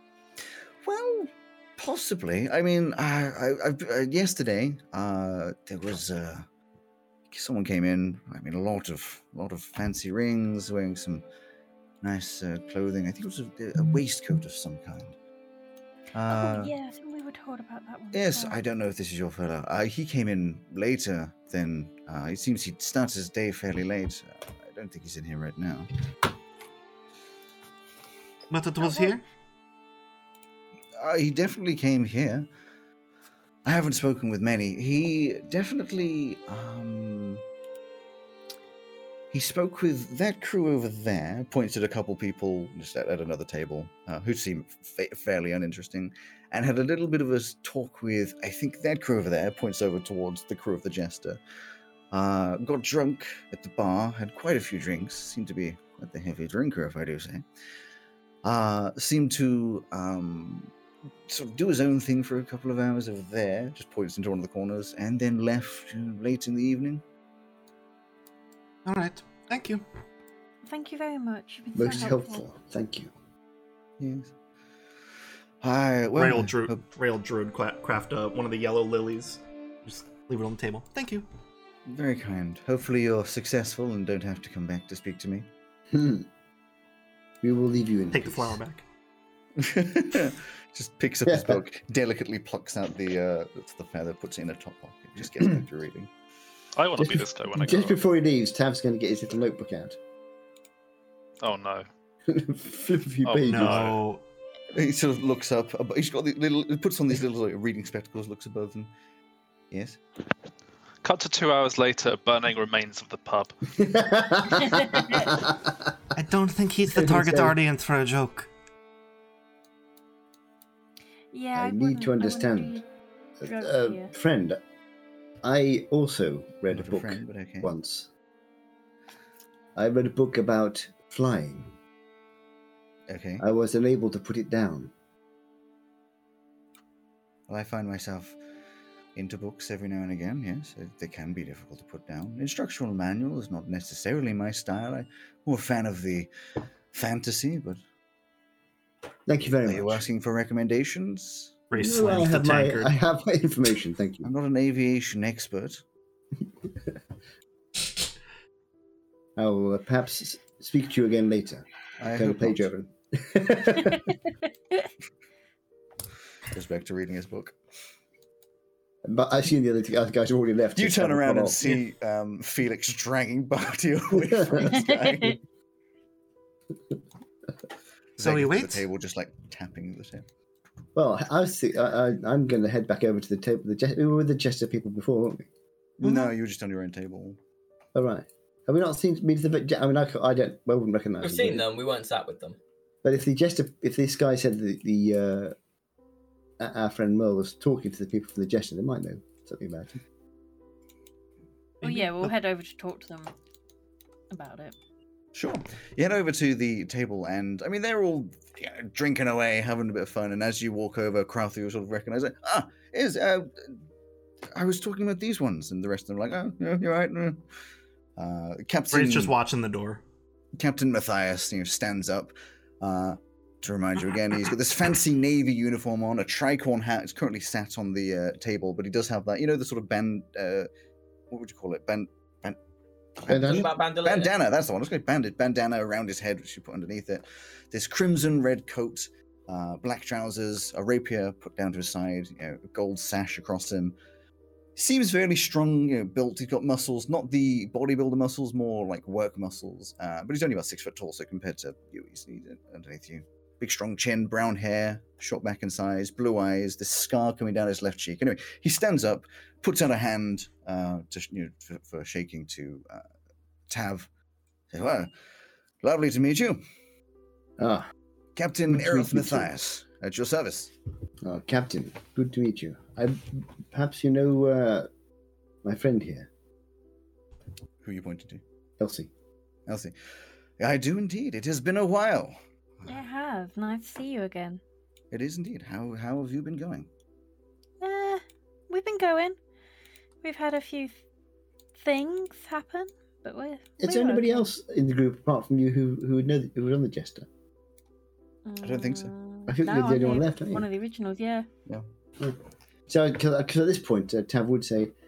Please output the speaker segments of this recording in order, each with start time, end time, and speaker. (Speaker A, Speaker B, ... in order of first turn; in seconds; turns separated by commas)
Speaker A: 0.8-6.5, Speaker A: 7.3-11.2, Speaker A: 12.0-15.2, Speaker A: 16.1-16.7, Speaker B: 16.2-18.6, Speaker A: 18.1-25.9, Speaker C: 28.5-29.2, Speaker B: 28.8-29.1, Speaker A: 31.0-32.5, Speaker A: 33.6-37.4, Speaker A: 39.3-51.4, Speaker A: 52.1-57.4, Speaker A: 58.4-60.7, Speaker A: 61.3-67.0, Speaker C: 68.8-69.8, Speaker B: 70.6-72.4, Speaker D: 71.7-73.1, Speaker A: 74.0-74.3, Speaker A: 75.6-76.8, Speaker C: 76.2-81.3, Speaker A: 81.9-85.5, Speaker D: 85.9-86.3, Speaker D: 87.4-88.6, Speaker C: 88.1-88.8, Speaker A: 89.6-96.1, Speaker D: 91.2-91.6, Speaker E: 96.8-98.0, Speaker D: 97.0-100.0, Speaker E: 101.4-101.8, Speaker D: 102.3-103.9, Speaker E: 103.2-104.0, Speaker C: 103.5-104.2, Speaker A: 104.7-108.9, Speaker A: 109.7-110.0, Speaker E: 111.0-113.5, Speaker D: 113.8-115.9, Speaker B: 114.5-115.4, Speaker C: 116.1-118.5, Speaker D: 116.9-117.6, Speaker B: 121.3-122.9, Speaker D: 121.5-122.8, Speaker B: 123.4-124.1, Speaker D: 123.4-124.6, Speaker D: 125.4-128.1, Speaker A: 126.7-127.7, Speaker D: 129.7-131.7, Speaker A: 133.1-133.4, Speaker D: 133.4-134.9, Speaker A: 137.5-138.4, Speaker A: 139.1-146.3, Speaker A: 146.9-147.8, Speaker D: 149.2-150.0, Speaker A: 149.6-151.5, Speaker C: 151.7-152.9, Speaker D: 151.8-154.3, Speaker A: 154.2-155.8, Speaker D: 156.6-157.0, Speaker D: 159.4-164.2, Speaker A: 162.0-162.7, Speaker A: 166.5-167.6, Speaker D: 169.0-171.6, Speaker A: 170.7-175.4, Speaker D: 174.1-174.8, Speaker B: 174.7-175.4, Speaker A: 178.2-180.2, Speaker C: 178.2-178.8, Speaker D: 180.9-185.5, Speaker A: 186.0-187.4, Speaker C: 186.0-186.3, Speaker D: 187.9-191.7, Speaker F: 191.2-192.6, Speaker D: 193.0-195.6, Speaker D: 196.6-200.0, Speaker C: 201.8-202.3, Speaker B: 201.8-203.3, Speaker B: 204.3-204.7, Speaker A: 205.3-213.7, Speaker A: 214.5-217.4, Speaker A: 218.2-219.3, Speaker C: 218.9-220.0, Speaker A: 220.6-230.7, Speaker A: 231.3-232.6, Speaker A: 233.2-243.9, Speaker D: 233.3-233.7, Speaker F: 233.3-234.3, Speaker A: 244.8-263.0, Speaker A: 263.7-264.1, Speaker A: 264.7-265.1, Speaker A: 265.8-266.6, Speaker D: 267.6-267.9, Speaker A: 268.4-270.7, Speaker D: 268.7-269.5, Speaker D: 271.2-274.9, Speaker D: 275.6-276.3, Speaker A: 277.8-278.4, Speaker D: 278.8-279.1, Speaker A: 279.7-279.9, Speaker A: 280.6-282.9, Speaker B: 282.9-284.6, Speaker A: 285.1-286.9, Speaker B: 287.8-289.4, Speaker B: 290.2-291.0, Speaker B: 291.7-294.5, Speaker D: 293.8-297.3, Speaker B: 298.4-301.5, Speaker A: 298.6-299.1, Speaker D: 299.5-300.7, Speaker D: 302.2-304.9